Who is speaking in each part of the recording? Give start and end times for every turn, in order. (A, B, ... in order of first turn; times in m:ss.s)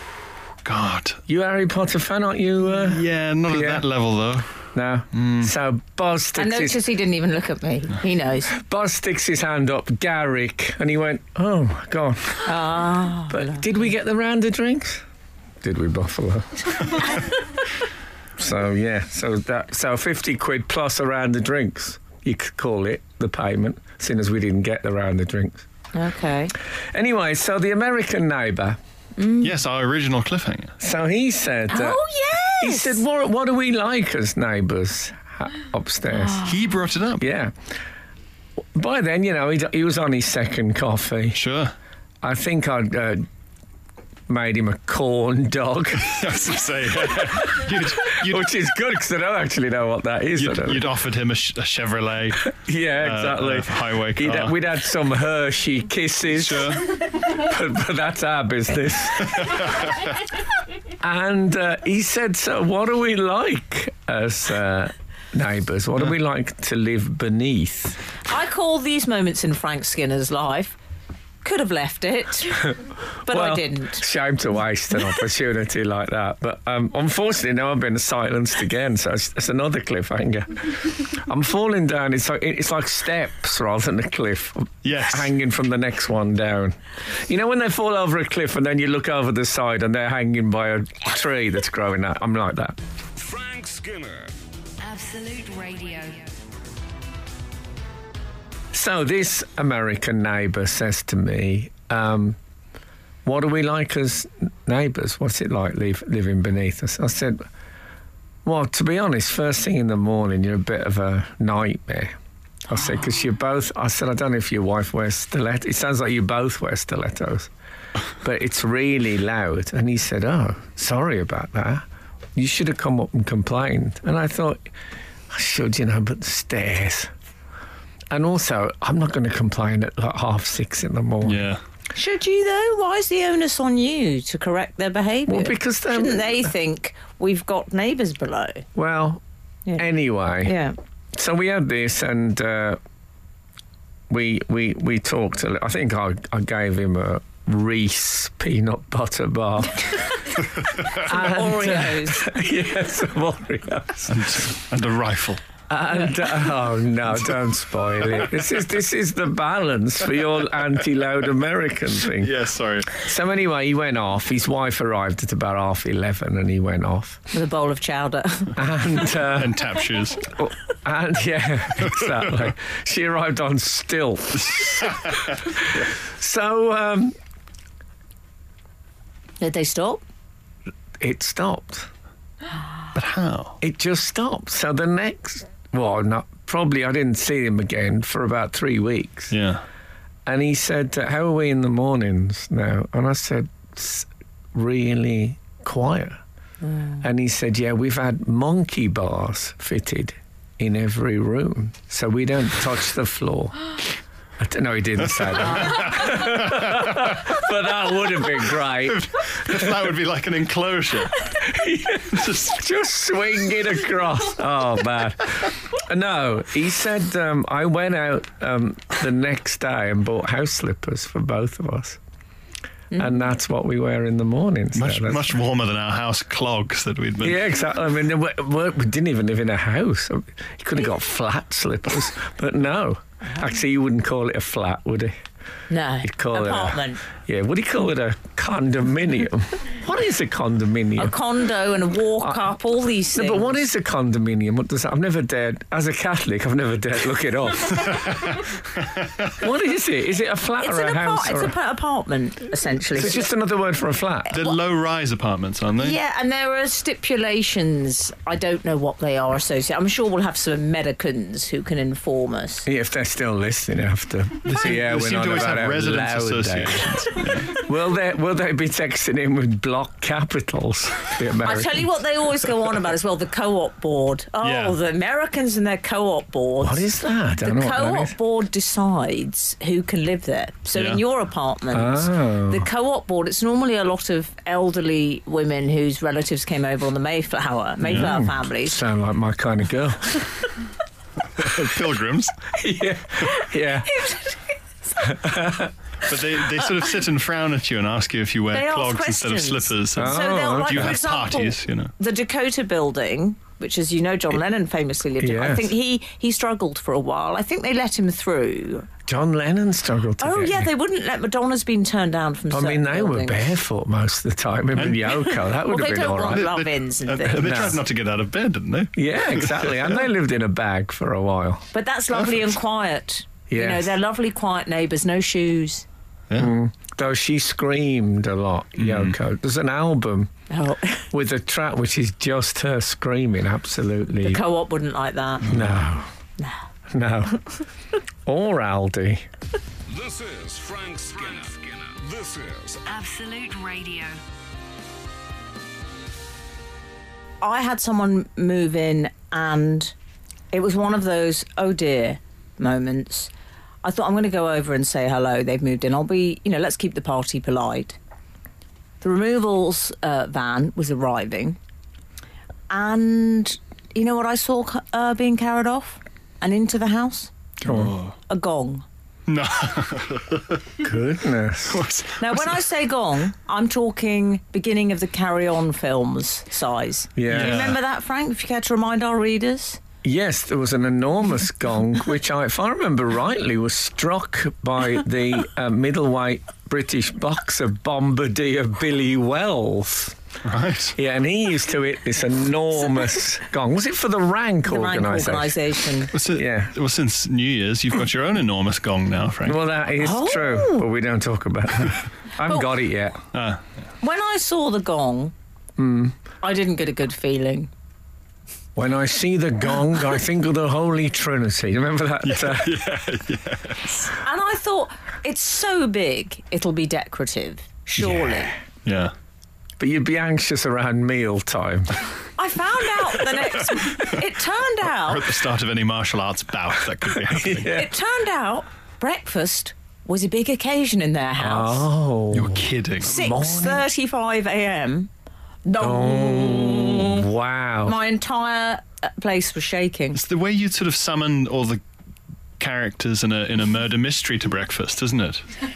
0:00.6-0:01.2 A
0:01.3-0:03.8 B
0:02.7-0:04.5 A
0:04.7-0:06.8 B
0:05.1-0:05.5 A
0:06.4-0:08.5 C
0:08.5-0:12.5 B
0:12.4-0:13.7 C
0:13.3-0:15.0 B
0:15.6-0:17.2 B
0:18.4-0:25.7 B
0:25.9-0:26.6 C
0:26.8-0:28.8 B
0:29.2-0:29.5 C
0:29.4-0:30.7 A
0:30.8-0:32.0 B
0:31.7-0:33.0 C
0:32.6-0:36.5 B
0:36.4-0:37.2 A
0:37.2-0:37.6 B
0:38.8-0:41.4 B
0:41.4-0:41.7 A
0:42.2-0:43.2 B
0:44.3-0:46.2 B
0:46.0-0:48.5 A
0:47.4-0:50.9 B
0:50.4-0:54.5 A
0:52.6-0:59.7 B
0:56.3-0:57.0 A
1:01.0-1:08.0 B
1:08.3-1:10.8 C
1:11.4-1:14.0 C
1:12.7-1:32.8 B
1:24.8-1:25.3 A
1:33.2-1:34.3 D
1:34.8-1:36.3 E
1:38.7-1:42.4 B
1:43.2-1:47.4 B
1:48.4-1:52.1 B
1:52.7-1:57.5 B
1:58.2-2:04.7 B
2:05.3-2:07.1 B
2:08.1-2:11.4 B
2:11.2-2:11.6 A
2:12.0-2:18.7 C
2:15.3-2:16.5 B
2:18.8-2:19.2 B
2:19.8-2:20.6 B
2:20.4-2:20.8 C
2:21.1-2:22.8 B
2:24.1-2:30.4 B
2:30.9-2:34.5 B
2:31.0-2:32.3 C
2:34.1-2:35.4 A
2:35.7-2:42.3 B
2:42.2-2:43.0 A
2:42.9-2:47.2 B
2:47.3-2:48.6 C
2:48.6-2:49.6 B
2:49.1-2:50.3 A
2:50.2-2:57.2 B
2:51.8-2:52.2 A
2:59.4-3:00.0 C
3:01.0-3:01.9 B
3:02.9-3:03.6 A
3:03.6-3:09.3 B
3:09.3-3:09.6 A
3:10.3-3:16.2 B
3:16.7-3:17.0 C
3:17.0-3:23.8 B
3:24.4-3:29.8 B
3:25.6-3:27.2 A
3:28.8-3:31.3 A
3:31.3-3:42.0 B
3:32.1-3:32.5 A
3:43.0-3:45.3 B
3:44.8-3:47.4 A
3:47.2-3:55.1 B
3:55.7-3:57.0 C
3:56.0-4:01.2 B
4:01.0-4:03.6 C
4:02.2-4:02.5 B
4:03.1-4:08.2 B
4:07.8-4:09.3 A
4:09.4-4:11.5 B
4:10.6-4:13.3 C
4:13.0-4:14.3 B
4:14.3-4:16.0 A
4:15.8-4:22.7 C
4:22.7-4:31.9 B
4:24.4-4:27.6 A
4:31.4-4:48.8 C
4:34.4-4:34.8 A
4:36.6-4:38.1 B
4:40.8-4:41.0 A
4:41.7-4:42.7 B
4:47.8-4:50.3 B
4:51.4-4:52.4 A
4:52.5-4:54.1 B
4:53.7-4:54.4 C
4:55.0-4:55.7 B
4:56.1-5:01.9 A
4:58.5-5:08.9 C
5:00.0-5:01.0 B
5:05.2-5:05.7 B
5:09.1-5:10.7 B
5:10.2-5:13.5 C
5:12.5-5:16.5 B
5:14.8-5:15.2 A
5:15.5-5:17.8 C
5:16.3-5:19.8 A
5:17.3-5:17.8 B
5:19.0-5:21.7 B
5:21.7-5:25.9 C
5:23.5-5:23.9 B
5:26.3-5:26.6 A
5:26.4-5:30.3 B
5:28.8-5:29.2 A
5:30.5-5:31.1 C
5:31.1-5:34.4 B
5:34.2-5:35.5 C
5:35.4-5:36.1 B
5:36.9-5:37.4 B
5:38.3-5:39.2 B
5:39.9-5:42.8 D
5:42.8-5:44.2 E
5:47.4-5:50.0 C
5:50.5-5:53.3 C
5:53.8-5:58.0 C
5:59.0-6:01.6 C
6:02.7-6:07.3 C
6:07.6-6:08.2 A
6:07.6-6:07.9 B
6:08.3-6:08.8 C
6:09.3-6:10.8 A
6:10.8-6:11.8 B
6:11.7-6:12.5 A
6:12.2-6:19.8 C
6:17.2-6:17.7 B
6:17.3-6:17.8 A
6:20.0-6:30.2 B
6:30.4-6:31.0 A
6:31.0-6:35.6 B
6:34.6-6:36.1 C
6:36.1-6:39.6 A
6:36.3-6:36.7 B
6:39.4-6:43.2 B
6:40.0-6:40.9 C
6:42.4-6:42.7 C
6:43.3-6:43.6 A
6:44.0-6:45.3 C
6:45.8-6:46.2 B
6:46.4-6:47.7 C
6:48.8-6:52.8 B
6:52.2-6:53.9 A
6:54.0-6:58.5 C
6:58.8-6:59.1 A
6:59.8-7:01.9 B
7:02.4-7:05.3 C
7:04.9-7:07.8 A
7:07.3-7:07.9 B
7:07.6-7:11.9 C
7:11.4-7:12.7 B
7:12.3-7:13.4 A
7:13.0-7:15.1 C
7:13.2-7:13.8 B
7:15.7-7:17.2 C
7:15.8-7:18.0 B
7:17.8-7:20.2 C
7:20.1-7:21.8 A
7:22.6-7:25.4 A